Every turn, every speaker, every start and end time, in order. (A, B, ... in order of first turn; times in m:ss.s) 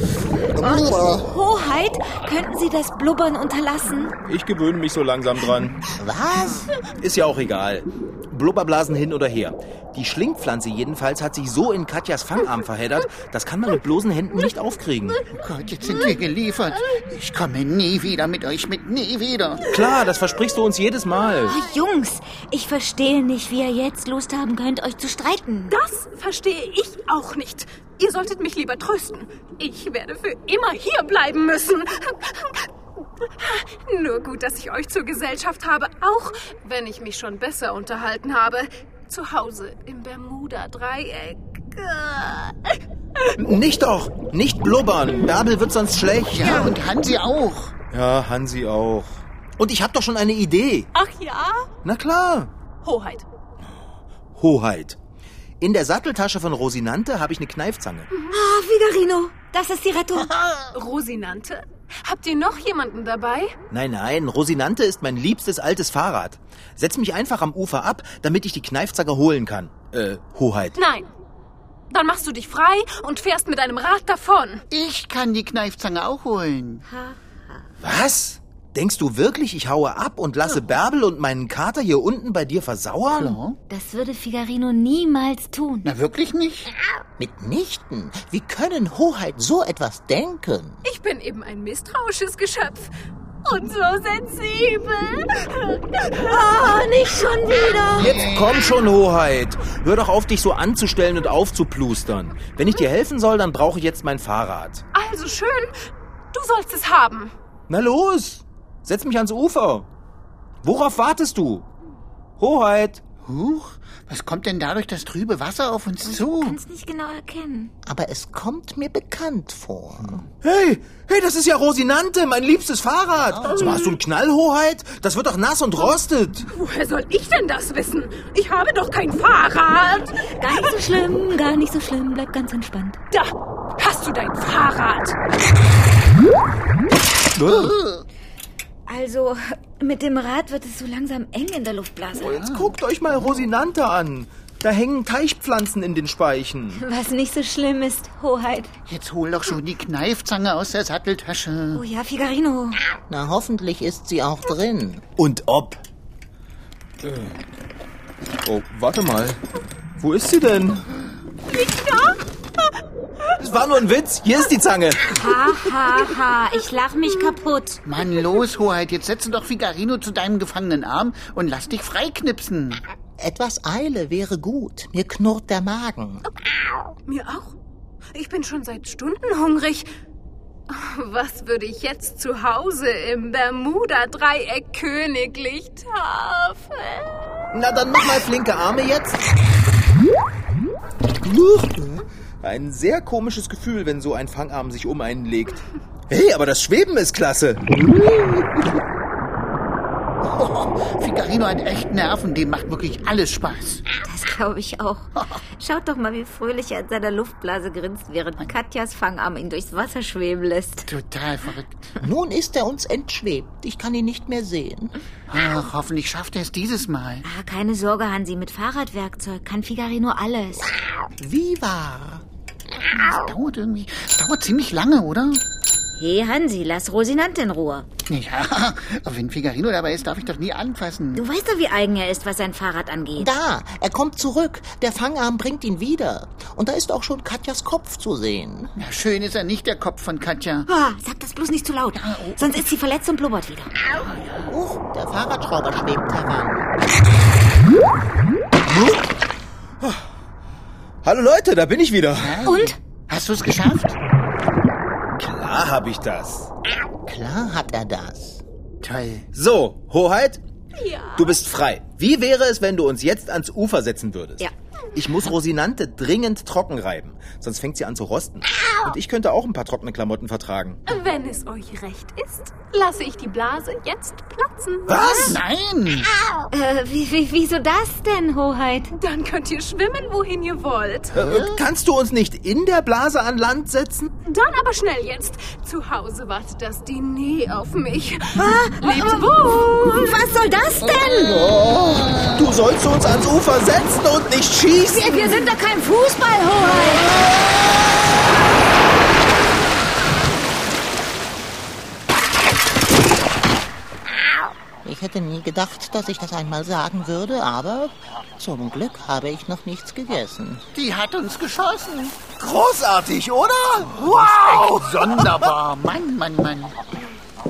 0:00.5-0:01.3 A
0:00.6-0:04.1 B
0:04.2-0:05.8 C
0:05.9-0:06.7 A
0:06.8-0:15.2 C
0:15.3-0:19.6 D
0:19.6-0:21.6 C
0:21.5-0:25.7 B
0:25.7-0:32.7 E
0:33.2-0:43.3 E
0:43.4-0:46.7 C
0:46.3-0:47.7 D
0:47.9-0:50.9 C
0:50.9-0:51.7 E
0:51.8-0:52.5 C
0:52.8-0:53.2 E
0:54.3-0:55.0 C
0:55.6-0:58.1 C
0:58.3-1:00.3 B
1:00.7-1:03.6 E
1:03.7-1:10.8 C
1:10.8-1:11.1 E
1:11.9-1:14.6 E
1:14.7-1:16.8 D
1:16.9-1:17.7 B
1:17.8-1:23.4 C
1:23.1-1:23.6 D
1:23.7-1:25.9 B
1:25.8-1:26.7 D
1:27.2-1:30.8 A
1:30.8-1:32.9 E
1:33.4-1:36.6 E
1:36.2-1:38.2 B
1:38.0-1:38.7 D
1:38.0-1:44.8 C
1:44.9-1:45.7 E
1:46.3-1:47.3 E
1:47.7-1:49.9 C
1:50.6-1:51.7 C
1:52.4-1:53.0 C
1:53.2-1:56.6 D
1:56.0-1:57.7 B
1:57.8-2:00.2 A
2:00.4-2:06.5 C
2:03.2-2:03.7 A
2:06.5-2:10.5 E
2:10.4-2:13.0 B
2:13.1-2:15.2 E
2:17.4-2:17.7 C
2:17.4-2:18.0 D
2:18.9-2:22.4 B
2:22.2-2:26.8 C
2:22.2-2:23.4 D
2:26.7-2:28.7 B
2:28.9-2:31.8 D
2:31.7-2:32.8 B
2:33.1-2:35.0 A
2:35.2-2:35.8 C
2:37.0-2:37.3 C
2:38.4-2:39.4 C
2:40.0-2:40.8 C
2:41.5-2:42.2 E
2:43.4-2:45.2 C
2:45.1-2:47.8 B
2:47.8-2:52.8 D
2:53.2-2:56.2 A
2:57.1-2:57.5 E
2:58.1-2:59.9 E
3:00.7-3:07.5 E
3:07.5-3:09.2 C
3:11.2-3:17.8 C
3:17.9-3:18.4 D
3:20.2-3:23.8 D
3:24.0-3:30.9 B
3:30.9-3:32.0 D
3:32.0-3:34.9 A
3:35.3-3:37.2 D
3:37.2-3:40.7 B
3:41.2-3:42.2 A
3:43.0-3:45.4 D
3:46.0-3:47.9 B
3:48.1-3:51.2 D
3:51.1-3:53.3 B
3:53.2-3:58.7 A
3:58.8-4:00.7 D
4:00.7-4:03.7 B
4:01.9-4:02.6 D
4:03.9-4:04.5 D
4:04.5-4:06.7 A
4:08.6-4:09.1 C
4:11.0-4:12.4 C
4:12.2-4:14.0 D
4:12.4-4:12.8 B
4:15.2-4:16.5 C
4:17.1-4:18.4 A
4:18.8-4:19.3 D
4:19.3-4:20.4 C
4:20.8-4:21.3 E
4:21.2-4:30.8 C
4:30.9-4:35.4 E
4:34.9-4:35.4 C
4:35.2-4:36.1 D
4:36.5-4:38.9 B
4:38.9-4:41.1 E
4:41.1-4:44.1 C
4:44.2-4:49.9 E
4:48.3-4:51.5 B
4:50.8-4:52.5 D
4:52.2-4:55.5 C
4:54.9-4:57.1 B
5:04.8-5:10.6 A
5:10.7-5:12.2 D
5:12.3-5:15.5 C
5:13.9-5:16.8 D